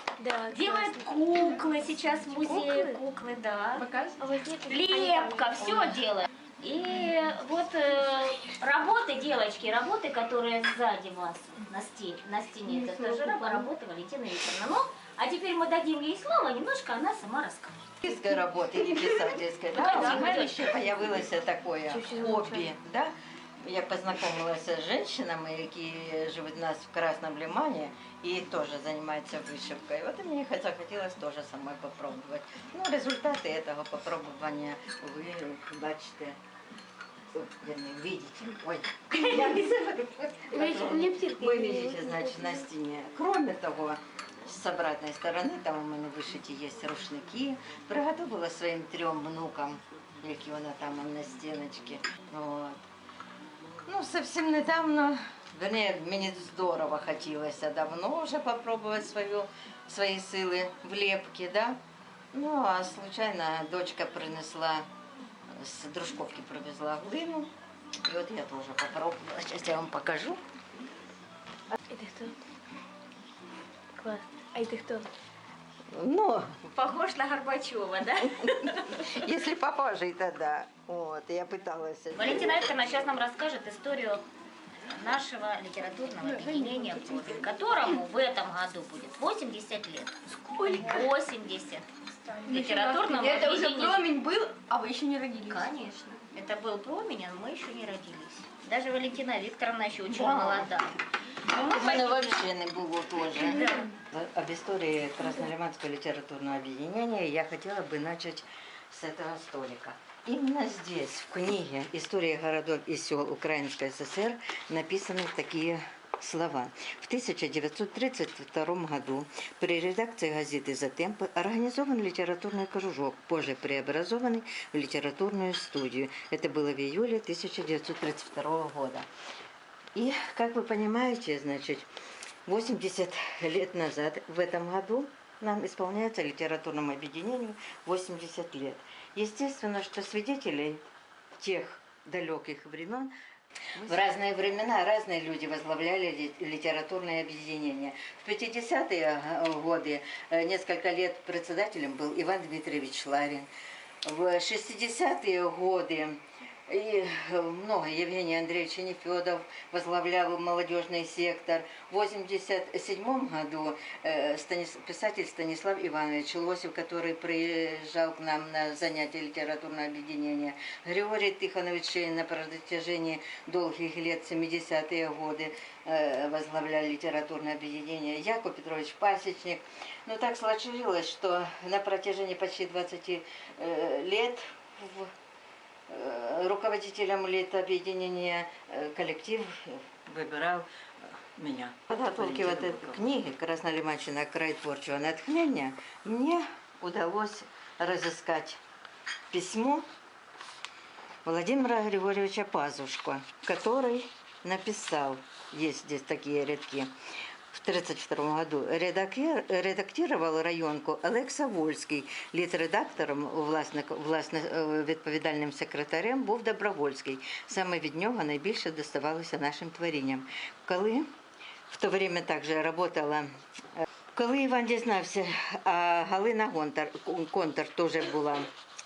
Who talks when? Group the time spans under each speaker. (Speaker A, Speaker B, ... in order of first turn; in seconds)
Speaker A: 0.2-1.3, 2.4-3.0, 4.0-5.8, 22.3-22.7, 40.6-42.6, 71.9-72.3, 74.0-75.0, 90.6-91.0
Speaker B: 0.5-3.8, 4.7-17.8, 19.7-20.8, 76.7-79.2, 82.1-84.2, 84.9-90.1, 90.7-91.9, 92.4-94.0, 95.5-100.9, 101.5-102.5, 103.3-103.9
Speaker C: 18.0-36.4, 37.3-52.8, 53.9-61.8, 62.3-64.8, 65.5-67.5, 68.0-70.4, 75.9-76.6, 79.1-82.8, 100.1-100.7, 101.5-129.1, 129.9-131.8, 132.4-140.8, 141.4-143.1, 143.8-153.5, 154.0-185.1, 185.9-190.6, 191.4-198.6, 199.3-199.8, 201.2-206.9, 207.5-221.1, 221.7-223.3, 224.1-228.5
Speaker D: 92.3-96.2